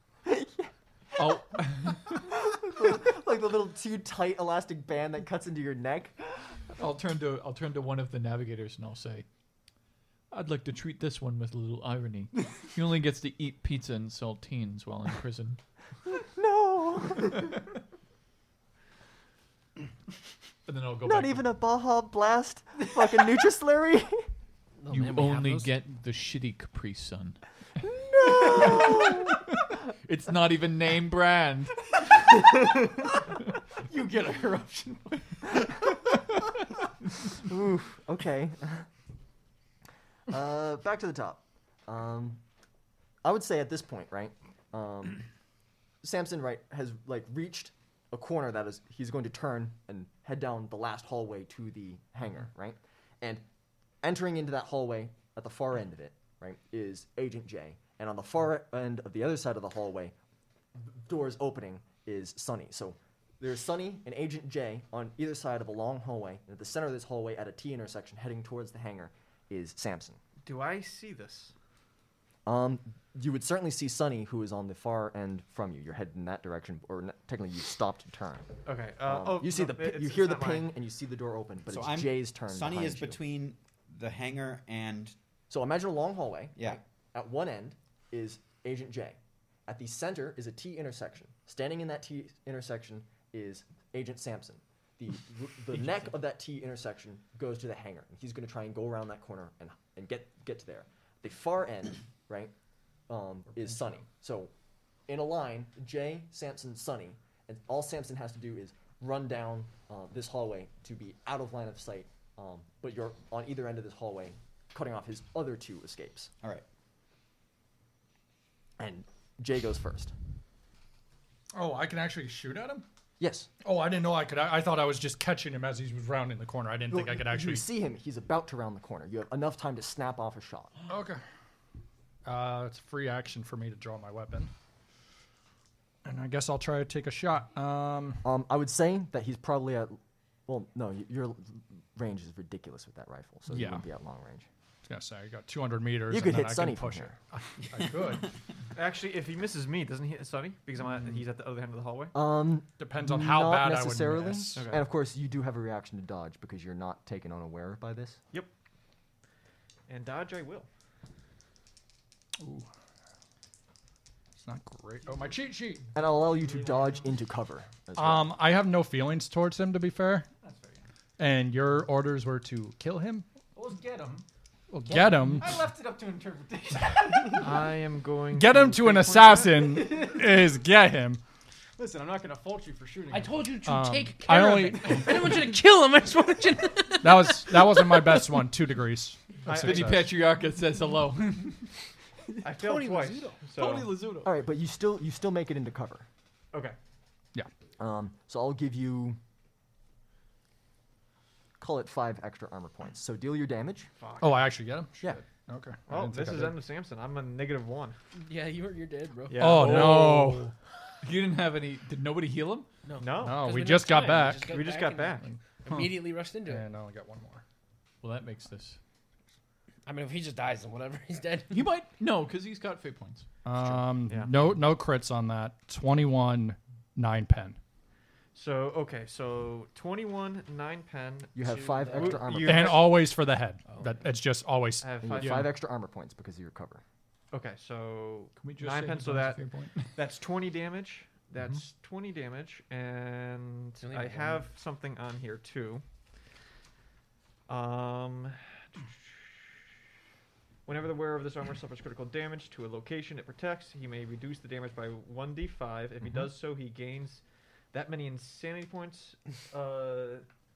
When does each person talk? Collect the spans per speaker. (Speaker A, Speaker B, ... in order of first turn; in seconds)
Speaker A: 0.2-1.3, 2.1-6.2, 16.2-17.6, 21.0-24.3, 28.4-28.9, 37.3-38.9, 40.3-42.4, 43.2-45.3, 46.0-53.4, 54.0-60.1, 60.9-70.2, 72.5-78.5, 79.0-83.2, 85.5-102.5, 103.1-104.5, 105.1-116.3, 118.8-120.1, 123.2-123.5, 126.9-130.7, 138.2-144.5, 146.1-147.2, 152.1-158.2, 165.9-168.4, 194.2-196.1, 197.8-199.2, 201.6-203.9, 231.3-232.8, 235.0-236.8
Speaker B: 1.2-2.2, 6.8-9.3, 10.3-15.6, 20.7-21.5, 24.9-31.8, 189.5-191.7, 193.6-194.3, 209.5-210.5, 211.0-212.7, 218.0-218.8, 221.5-223.3, 235.2-235.5, 238.4-240.0
Speaker C: 24.8-25.7, 174.9-175.2, 183.1-188.4, 192.5-193.4, 208.2-209.7, 212.9-216.7, 219.9-221.7, 231.4-232.4, 233.7-234.1, 243.8-244.5
Speaker D: 32.2-33.2, 33.9-35.7, 166.4-167.0, 170.4-170.9, 173.6-174.2, 175.2-177.5, 179.8-180.4, 181.8-183.6
Speaker E: 70.4-71.5, 78.6-80.8, 148.7-152.1, 154.5-154.8, 159.9-160.7, 177.4-179.8, 189.5-190.1, 192.4-194.1, 204.0-204.6, 205.9-208.0, 209.3-210.4, 213.0-213.5, 214.4-215.3, 224.1-224.4, 228.3-233.1, 234.8-235.5, 237.3-239.4, 240.0-245.8, 247.5-249.4, 250.7-260.3
Speaker F: 81.7-85.2, 86.6-86.8
Speaker G: 121.5-122.9, 123.6-127.7, 130.9-131.2, 132.3-134.5, 136.1-138.2, 143.5-143.9, 144.9-148.3, 152.8-154.7, 162.4-162.7, 164.4-165.9, 168.0-170.3, 171.2-173.3, 174.7-175.6, 178.3-181.2, 183.6-185.3, 187.0-190.2, 204.2-206.6, 209.4-210.5, 213.2-214.6, 216.4-217.4, 223.4-227.6, 232.4-235.0